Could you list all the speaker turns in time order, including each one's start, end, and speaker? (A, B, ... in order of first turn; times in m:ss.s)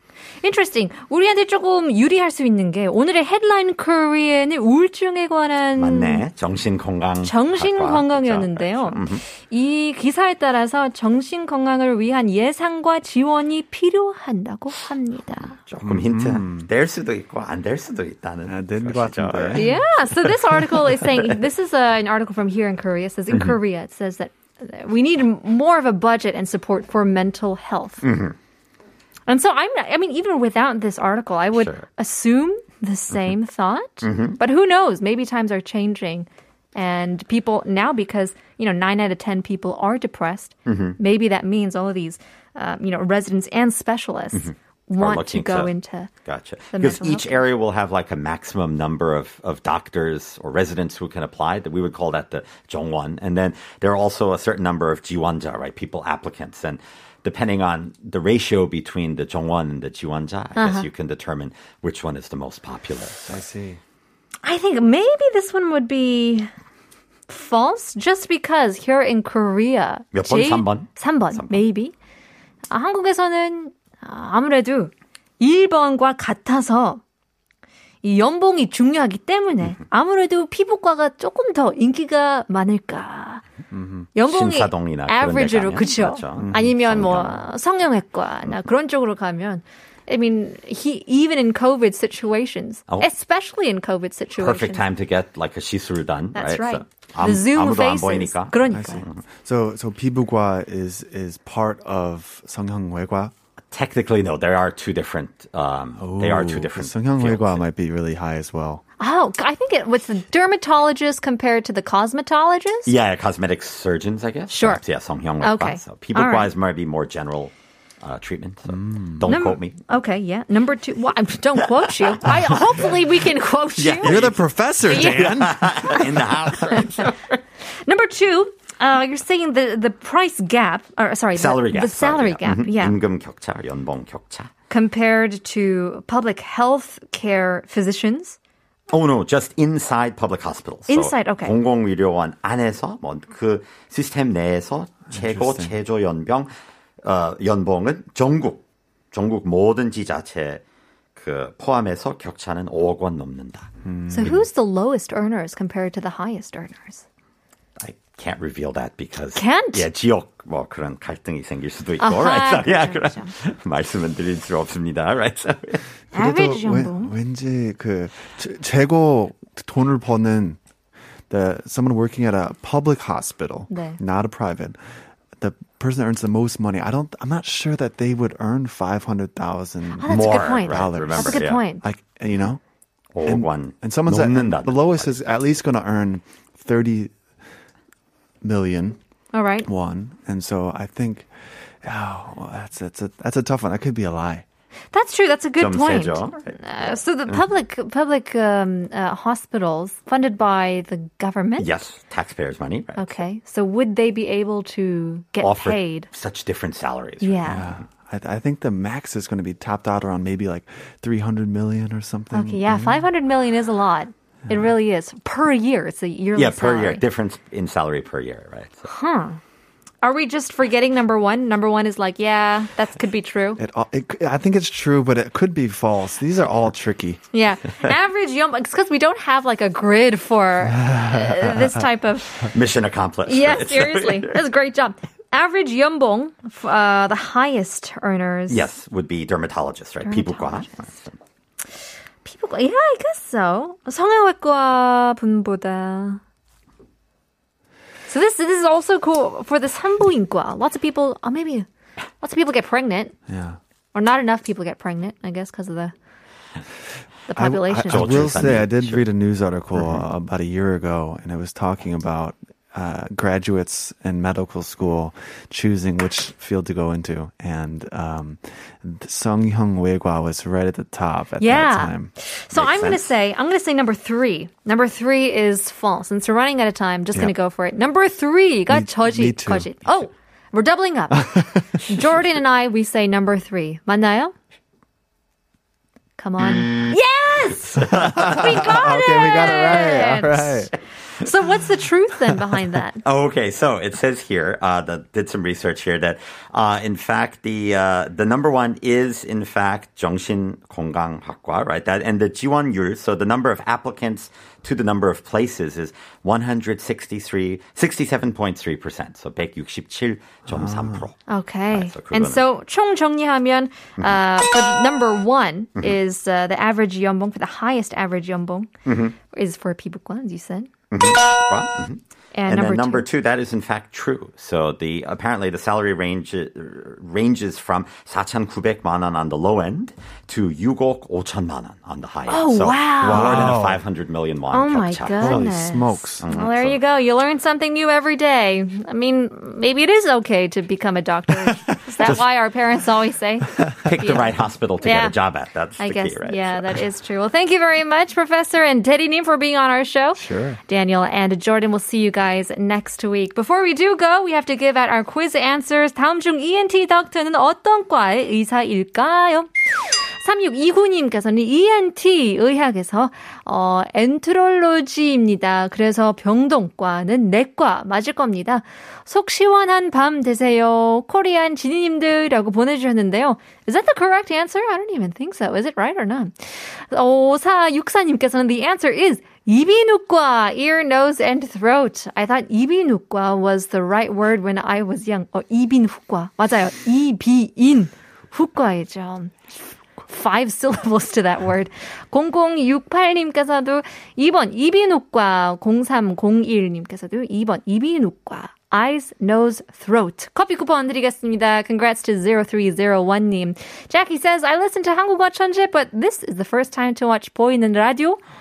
0:00.4-0:06.2 A
0:05.8-0:09.2 B
0:07.2-0:15.6 A
0:15.6-0:21.4 B
0:15.8-0:16.7 C
0:18.4-0:19.8 C
0:19.5-0:28.0 A
0:28.0-0:28.4 B
0:29.3-0:46.1 A
0:31.5-0:31.9 B
0:34.0-0:34.4 B
0:40.6-0:41.0 B
0:44.3-0:45.7 B
0:46.2-1:03.4 B
0:46.7-0:47.5 A
1:00.6-1:00.9 A
1:03.3-1:03.8 C
1:04.4-1:06.5 A
1:07.3-1:11.9 A
1:10.1-1:11.6 B
1:12.7-1:17.0 A
1:18.0-1:23.4 A
1:23.7-1:24.1 C
1:24.1-1:34.8 A
1:24.2-1:27.4 B
1:26.4-1:26.7 C
1:34.4-1:39.2 B
1:36.3-1:39.0 A
1:38.7-1:43.3 C
1:43.7-1:47.6 B
1:46.0-1:48.8 C
1:49.0-1:52.9 A
1:52.8-1:59.8 B
1:54.5-1:54.8 A
1:55.4-1:56.5 A
1:58.7-1:59.3 C
1:59.2-2:04.3 A
2:03.8-2:07.2 B
2:04.0-2:06.3 C
2:04.9-2:06.2 A
2:06.7-2:07.1 A
2:07.8-2:13.0 A
2:11.3-2:14.5 B
2:14.7-2:18.4 A
2:18.9-2:26.5 B
2:20.9-2:21.6 A
2:25.1-2:25.7 C
2:27.0-2:30.6 B
2:31.2-2:33.7 B
2:33.8-2:34.4 C
2:34.1-2:37.0 A
2:37.8-2:45.8 B
2:39.3-2:39.9 A
2:42.0-2:43.3 A
2:46.1-2:47.1 A
2:46.1-2:50.6 C
2:51.3-2:54.8 C
2:53.7-2:54.0 A
2:55.4-3:02.6 C
3:00.0-3:01.8 A
3:00.1-3:01.6 B
3:03.1-3:05.5 B
3:03.2-3:07.1 C
3:08.4-3:09.0 C
3:09.3-3:09.7 A
3:09.6-3:11.3 C
3:11.8-3:14.4 C
3:14.9-3:21.7 A
3:15.6-3:16.6 B
3:21.6-3:23.2 B
3:23.0-3:26.1 A
3:25.4-3:27.8 B
3:27.2-3:27.7 A
3:27.4-3:33.1 C
3:32.3-3:37.0 A
3:36.3-3:38.9 B
3:38.8-3:39.4 A
3:40.0-3:43.6 A
3:43.6-3:47.2 C
3:47.3-3:52.5 A
3:50.7-3:51.8 C
3:52.5-3:54.4 B
3:53.2-3:58.7 A
3:58.5-4:01.2 B
4:00.0-4:00.9 A
4:02.2-4:06.2 A
4:08.1-4:11.6 A
4:12.2-4:13.1 A
4:13.3-4:13.6 C
4:13.9-4:15.9 A
4:17.3-4:18.3 A
4:17.4-4:32.1 C
4:17.8-4:19.0 B
4:19.7-4:20.0 B
4:31.4-4:44.3 A
4:32.5-4:33.1 B
4:38.7-4:39.7 C
4:41.1-4:41.6 C
4:46.2-4:53.0 A
4:46.6-4:46.8 B
4:47.7-4:48.7 B
4:48.0-4:50.7 C
4:53.0-5:12.4 B
5:10.5-5:11.0 C
5:11.3-5:18.7 A
5:18.8-5:19.2 B
5:19.3-5:20.7 A
5:20.9-5:35.6 B
5:22.3-5:23.1 A
5:32.3-5:33.5 A
5:33.0-5:33.8 C
5:34.5-5:45.2 A
5:35.2-5:36.3 C
5:36.2-5:36.8 B
5:43.8-5:46.8 B
5:45.8-5:59.5 A
5:50.2-5:50.6 C
6:00.2-6:16.3 A
6:16.9-6:29.4 A
6:30.0-6:48.2 A